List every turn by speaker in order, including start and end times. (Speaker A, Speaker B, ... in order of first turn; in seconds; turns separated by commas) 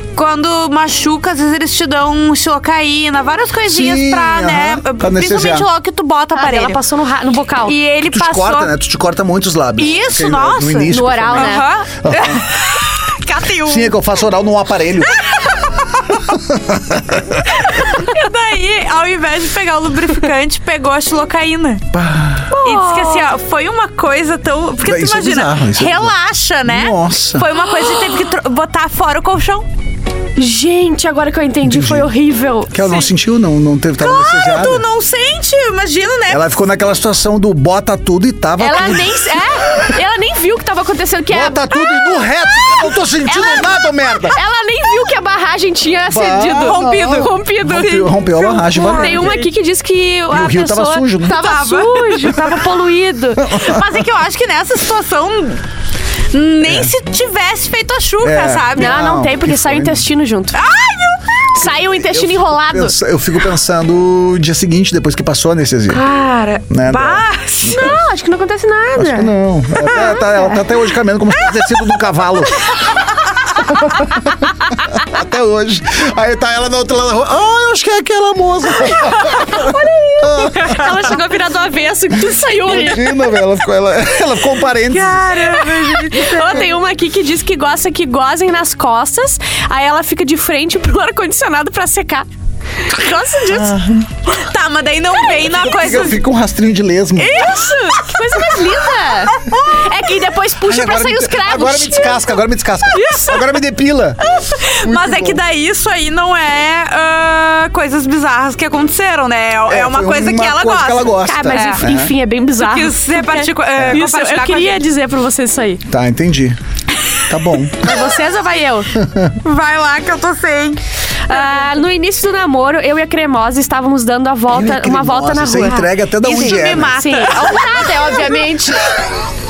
Speaker A: 0.1-6.8, Speaker B: 3.7-5.7, Speaker C: 6.3-7.8, Speaker A: 7.7-8.7, Speaker B: 8.1-12.4, Speaker A: 9.8-14.1, Speaker C: 10.9-11.7, Speaker B: 13.6-15.2, Speaker A: 15.0-16.3, Speaker B: 16.3-17.6, Speaker A: 17.4-21.8, Speaker B: 21.9-22.5, Speaker C: 22.5-23.3, Speaker A: 22.6-29.7, Speaker B: 24.8-27.5, Speaker C: 30.4-32.9, Speaker B: 31.6-32.1, Speaker B: 32.7-34.8, Speaker A: 32.8-33.1, Speaker A: 34.0-36.5, Speaker B: 36.3-39.2, Speaker C: 38.6-41.7, Speaker B: 41.3-44.4, Speaker A: 42.6-42.9, Speaker C: 43.3-43.6, Speaker C: 44.3-48.0, Speaker B: 46.1-49.4, Speaker A: 46.6-49.5, Speaker C: 48.7-53.5, Speaker B: 50.3-51.4, Speaker A: 51.2-52.5, Speaker B: 53.4-53.8, Speaker A: 53.5-55.6, Speaker A: 56.3-58.9, Speaker B: 56.6-56.9, Speaker B: 58.2-60.0, Speaker C: 58.8-60.6, Speaker A: 60.5-61.2, Speaker C: 61.5-62.9, Speaker B: 61.6-66.0, Speaker A: 65.9-67.9, Speaker B: 66.7-68.0, Speaker C: 67.7-70.1, Speaker B: 69.0-72.8, Speaker A: 69.9-70.2, Speaker A: 71.4-71.8, Speaker B: 73.5-81.1, Speaker C: 79.2-83.3, Speaker B: 82.7-85.4, Speaker A: 84.9-86.7, Speaker C: 85.8-92.2, Speaker C: 92.8-93.9, Speaker B: 93.5-94.1, Speaker A: 94.2-96.2, Speaker B: 95.4-97.4, Speaker C: 97.2-102.3, Speaker A: 97.3-98.2, Speaker B: 100.6-104.2, Speaker C: 102.9-103.4, Speaker A: 103.0-103.4, Speaker A: 104.3-111.8, Speaker B: 104.8-105.4, Speaker B: 109.7-112.2, Speaker C: 111.2-115.8, Speaker A: 112.6-114.8, Speaker B: 113.7-114.0, Speaker B: 115.9-116.6, Speaker B: 117.3-118.0, Speaker C: 117.8-118.9, Speaker B: 119.0-119.3, Speaker A: 119.4-120.8, Speaker C: 121.3-129.0, Speaker A: 121.3-121.6, Speaker B: 124.5-127.0, Speaker A: 125.7-128.2